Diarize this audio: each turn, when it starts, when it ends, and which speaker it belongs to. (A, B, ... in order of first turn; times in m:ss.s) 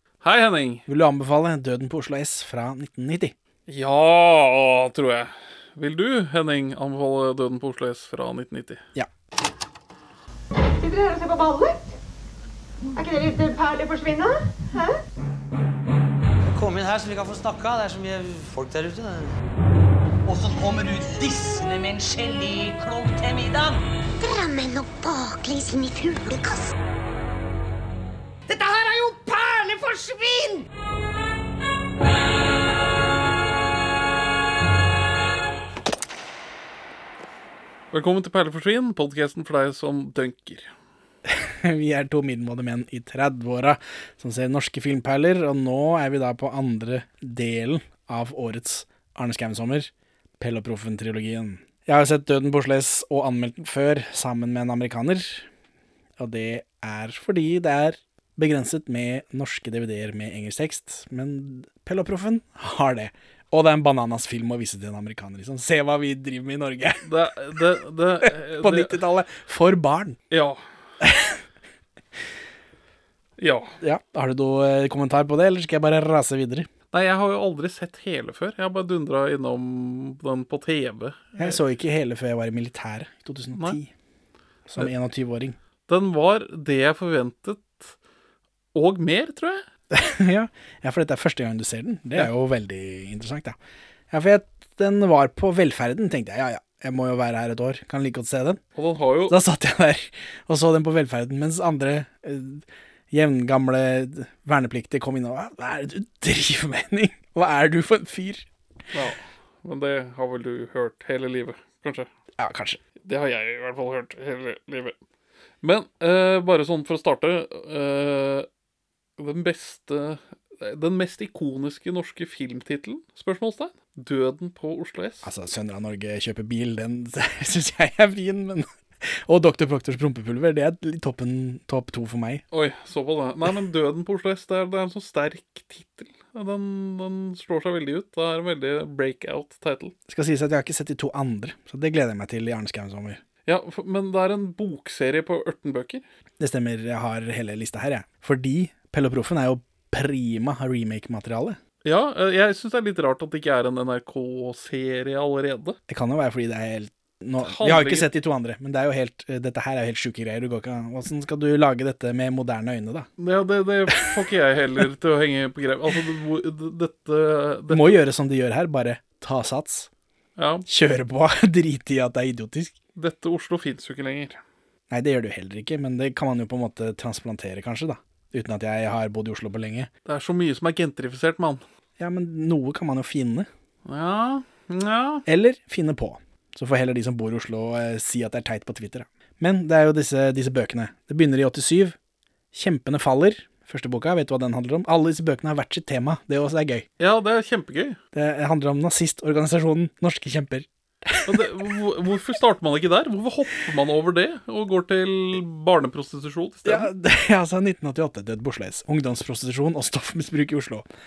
0:00.2-0:00.9 A
0:00.9-0:03.3 B
0:03.7-0:08.8 A
0:10.8-0:11.9 C
0:13.0-0:15.0 C
0:16.5-0:19.3 D
0:20.3-0:23.8 D
0:24.2-0:26.7 E
0:28.5-0:30.6 D
0:37.9-0:40.7 A
0:41.3-0:55.5 B
0:56.2-1:07.0 B
1:07.0-1:09.0 A
1:08.2-1:10.2 B
1:10.3-1:10.6 A
1:11.0-1:11.4 B
1:13.4-1:13.8 A
1:13.8-1:16.7 B
1:16.9-1:21.6 A
1:21.4-1:23.9 B
1:23.5-1:23.8 A
1:24.7-1:25.6 B
1:25.9-1:28.0 A
1:28.7-1:29.6 A
1:29.9-1:33.6 B
1:34.1-1:38.6 B
1:38.8-1:39.4 A
1:39.3-1:48.5 B
1:48.9-1:52.1 A
1:52.4-1:52.8 B
1:53.0-1:55.0 A
1:55.6-1:58.5 A
1:59.2-2:05.3 A
2:05.2-2:12.4 B
2:12.5-2:19.9 A
2:20.1-2:23.2 B
2:23.5-2:26.0 A
2:26.4-2:31.6 B
2:31.8-2:35.8 A
2:35.9-2:43.1 B
2:37.4-2:38.1 A
2:43.2-2:48.0 A
2:43.9-2:44.2 B
2:47.7-2:49.9 B
2:50.4-2:50.6 A
2:50.7-2:52.8 B
2:53.0-2:54.4 A
2:54.9-2:59.9 B
3:00.1-3:01.6 A
3:02.0-3:03.5 B
3:03.9-3:05.2 A
3:05.3-3:12.0 B
3:12.5-3:16.9 B
3:17.0-3:18.0 A
3:18.1-3:21.7 B
3:21.3-3:26.9 A
3:26.6-3:30.9 B